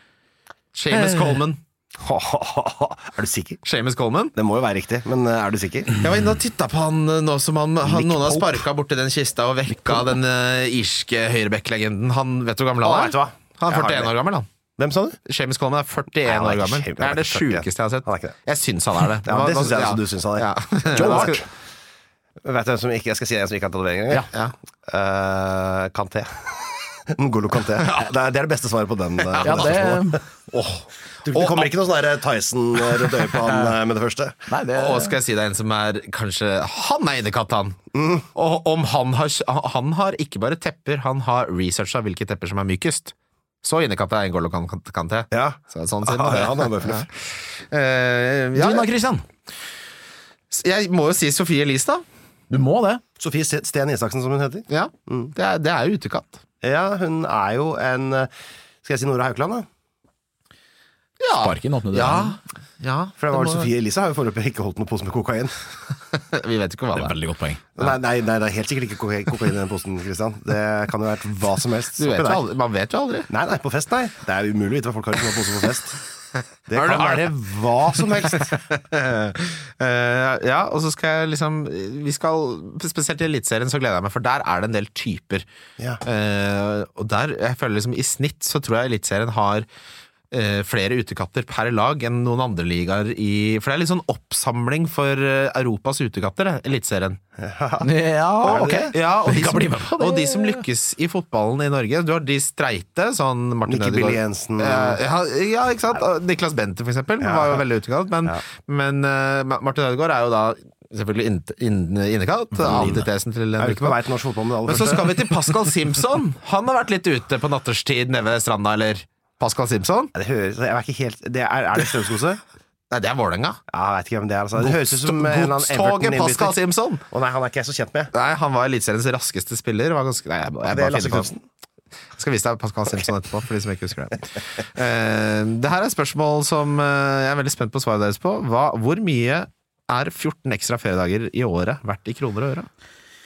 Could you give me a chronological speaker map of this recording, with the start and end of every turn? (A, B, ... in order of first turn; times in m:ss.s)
0:00.7-0:01.6 A
0:02.0-0:03.6 B
0:03.6-0:04.3 A
0:04.4-0:06.0 B
0:06.0-0:14.5 A
0:07.8-0:08.6 B
0:12.8-0:14.2 B
0:14.8-0:15.2 B
0:15.3-0:21.4 A
0:16.2-0:18.4 B
0:19.2-0:21.4 B
0:20.9-0:21.4 C
0:22.4-0:24.3 B
0:24.9-0:30.2 B
0:29.3-0:29.8 A
0:29.4-0:30.2 C
0:30.5-0:31.7 A
0:31.3-0:34.5 B
0:34.5-0:35.1 C
0:34.7-0:37.8 A
0:37.9-0:38.3 B
0:38.3-0:48.9 A
0:45.3-0:47.1 B
0:48.6-0:49.2 C
0:50.5-0:52.0 A
0:52.5-0:53.0 C
0:53.2-0:55.3 B
0:54.7-0:56.4 A
0:56.6-0:58.3 B
0:58.8-0:59.7 B
1:01.2-1:03.7 A
1:01.4-1:02.4 C
1:03.2-1:05.6 B
1:06.1-1:07.2 A
1:07.0-1:07.6 C
1:07.8-1:12.4 B
1:12.0-1:13.3 A
1:13.3-1:16.0 B
1:16.7-1:18.6 B
1:16.7-1:17.3 A
1:18.1-1:25.4 A
1:26.0-1:29.7 A
1:30.3-1:37.2 A
1:37.4-1:37.9 B
1:37.8-1:40.6 C
1:38.4-1:38.9 B
1:38.5-1:54.0 A
1:43.7-1:45.0 B
1:47.2-1:47.6 B
1:52.6-1:53.1 B
1:53.6-1:55.3 B
1:54.6-2:00.1 A
2:00.1-2:02.4 B
2:02.9-2:03.6 A
2:03.7-2:06.6 B
2:04.6-2:07.0 A
2:07.1-2:08.1 B
2:08.1-2:11.3 A
2:10.7-2:11.4 B
2:12.2-2:22.7 A